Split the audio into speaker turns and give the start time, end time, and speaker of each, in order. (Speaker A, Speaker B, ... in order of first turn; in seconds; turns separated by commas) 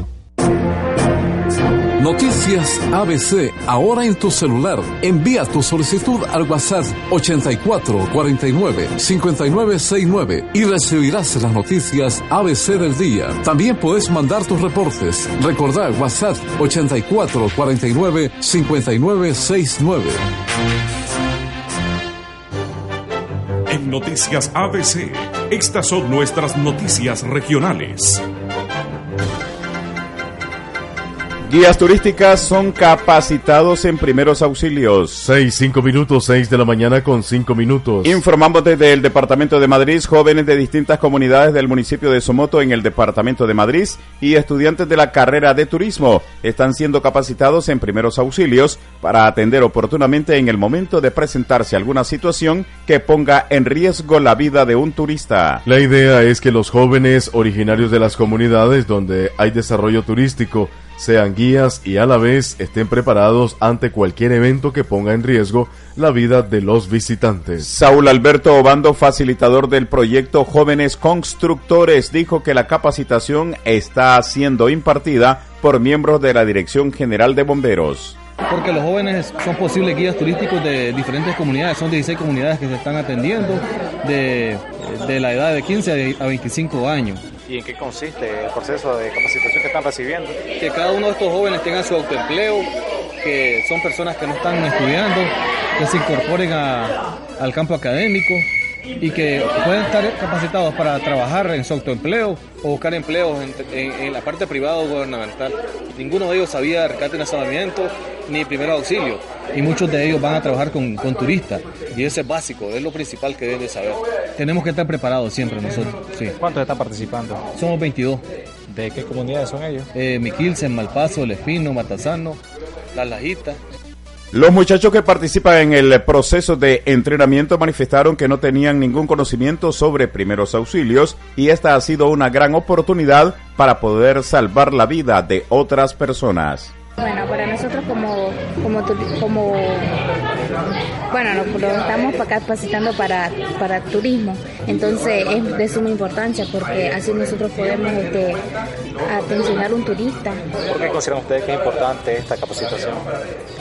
Speaker A: 2.0-20.2, Speaker B: 23.7-28.2, Speaker C: 31.5-35.3, Speaker D: 35.2-38.2, Speaker C: 38.0-55.6, Speaker D: 55.6-67.7, Speaker C: 67.6-78.2, Speaker E: 78.5-87.2, Speaker F: 87.5-90.4, Speaker E: 90.6-92.7, Speaker E: 93.2-98.5, Speaker E: 99.0-116.4, Speaker F: 116.4-117.4, Speaker E: 117.5-118.2, Speaker F: 118.7-119.9, Speaker E: 119.9-122.4, Speaker E: 123.0-123.6, Speaker C: 124.3-136.7, Speaker G: 137.0-140.0, Speaker G: 141.1-148.4, Speaker G: 149.1-150.4, Speaker F: 150.7-153.1